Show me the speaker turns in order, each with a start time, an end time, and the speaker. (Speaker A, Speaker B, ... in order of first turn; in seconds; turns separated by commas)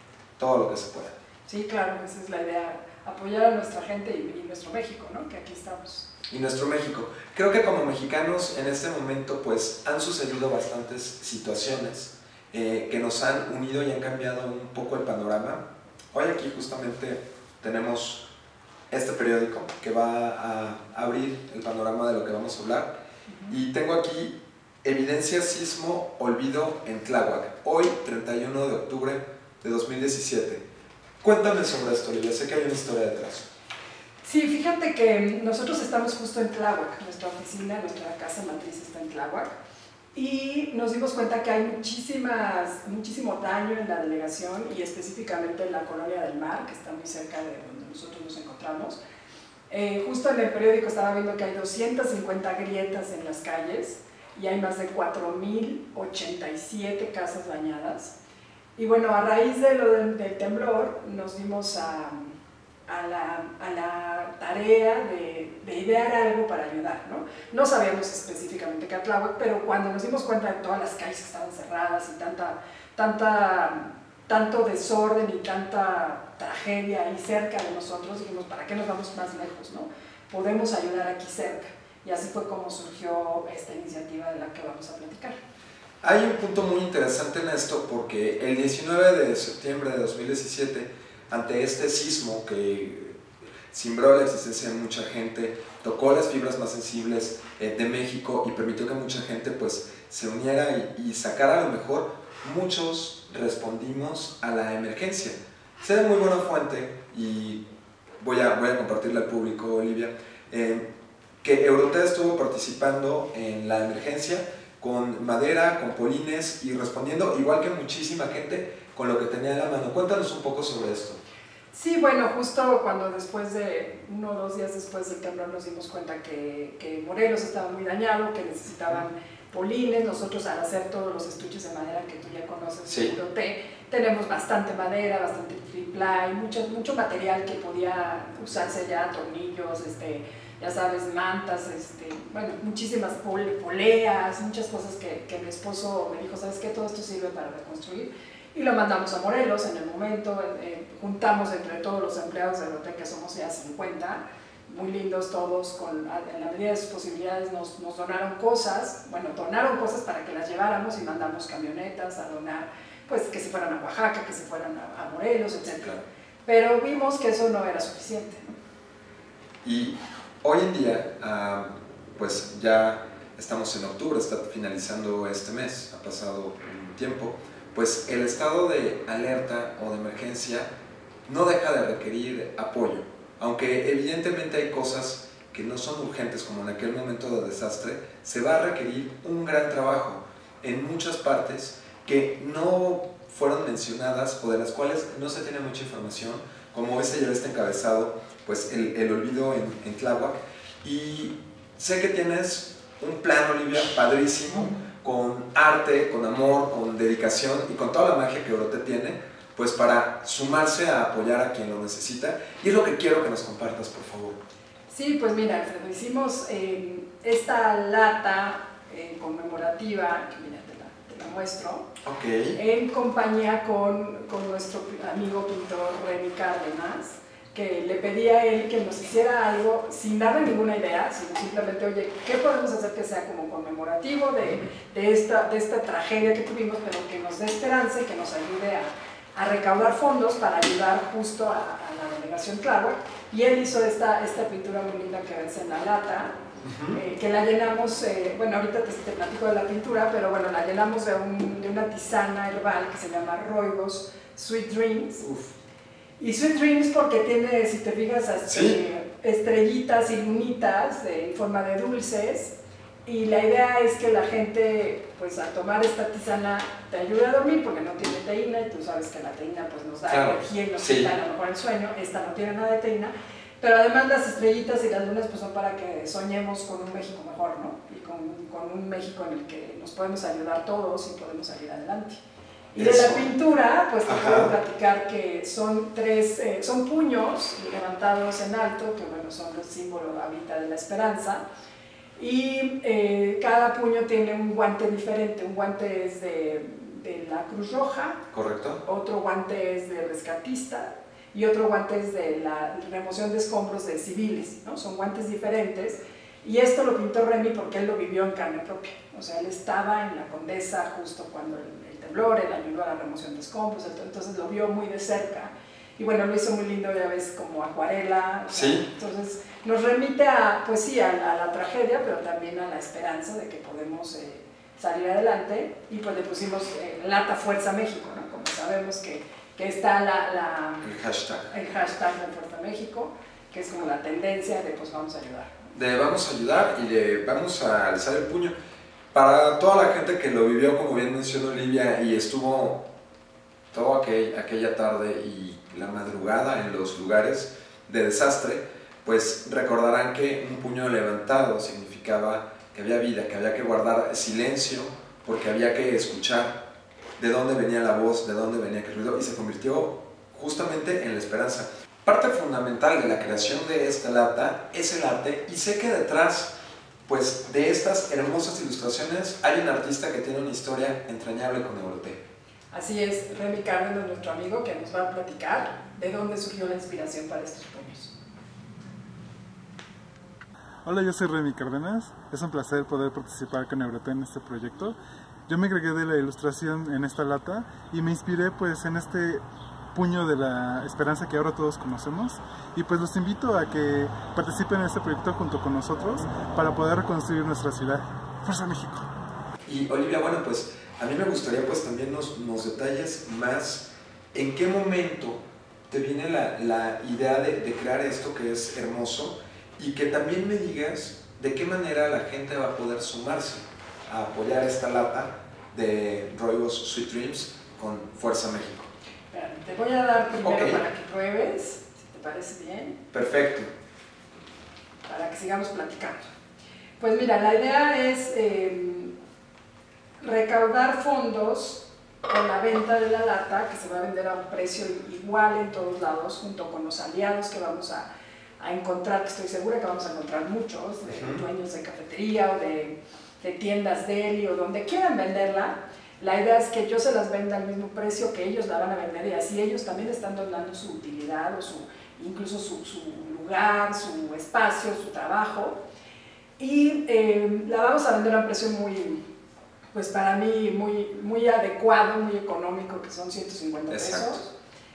Speaker A: 0.4-1.1, Speaker B: 1.5-6.1, Speaker A: 6.3-18.2, Speaker A: 18.9-22.9, Speaker B: 23.3-23.6, Speaker A: 23.5-30.6, Speaker A: 31.2-33.5, Speaker B: 34.2-39.5, Speaker B: 40.1-49.0, Speaker B: 49.7-58.1, Speaker B: 58.8-62.3, Speaker B: 62.9-85.4, Speaker A: 86.0-93.2, Speaker A: 93.7-107.6, Speaker A: 108.2-110.8, Speaker A: 111.4-121.2, Speaker B: 121.7-168.5, Speaker A: 132.9-133.1, Speaker A: 169.6-180.7, Speaker A: 181.2-214.4, Speaker B: 214.9-221.9, Speaker A: 222.0-222.6, Speaker B: 222.5-246.3, Speaker A: 246.6-247.0, Speaker B: 246.9-255.2, Speaker A: 255.2-255.5, Speaker B: 256.2-262.5, Speaker A: 258.5-258.8, Speaker B: 263.1-282.2, Speaker A: 270.1-271.1, Speaker B: 282.7-291.4, Speaker A: 282.8-283.3, Speaker A: 284.0-284.5, Speaker B: 292.2-298.2, Speaker A: 298.3-298.8, Speaker B: 298.8-330.9, Speaker A: 318.5-318.9, Speaker A: 330.8-331.5, Speaker B: 331.5-335.5, Speaker A: 335.7-338.5, Speaker A: 339.1-342.8, Speaker A: 343.7-356.6, Speaker A: 357.2-366.5, Speaker A: 367.1-372.2, Speaker B: 372.7-378.1, Speaker C: 380.8-385.0, Speaker C: 385.5-389.4, Speaker C: 389.9-399.1, Speaker A: 399.6-418.9, Speaker B: 419.3-423.0, Speaker A: 420.4-420.8, Speaker A: 423.1-423.7, Speaker B: 425.1-426.3, Speaker B: 427.0-429.1, Speaker B: 430.2-438.1, Speaker B: 438.6-455.8, Speaker A: 441.1-441.4, Speaker B: 456.6-459.2, Speaker B: 459.9-464.5, Speaker A: 463.9-464.4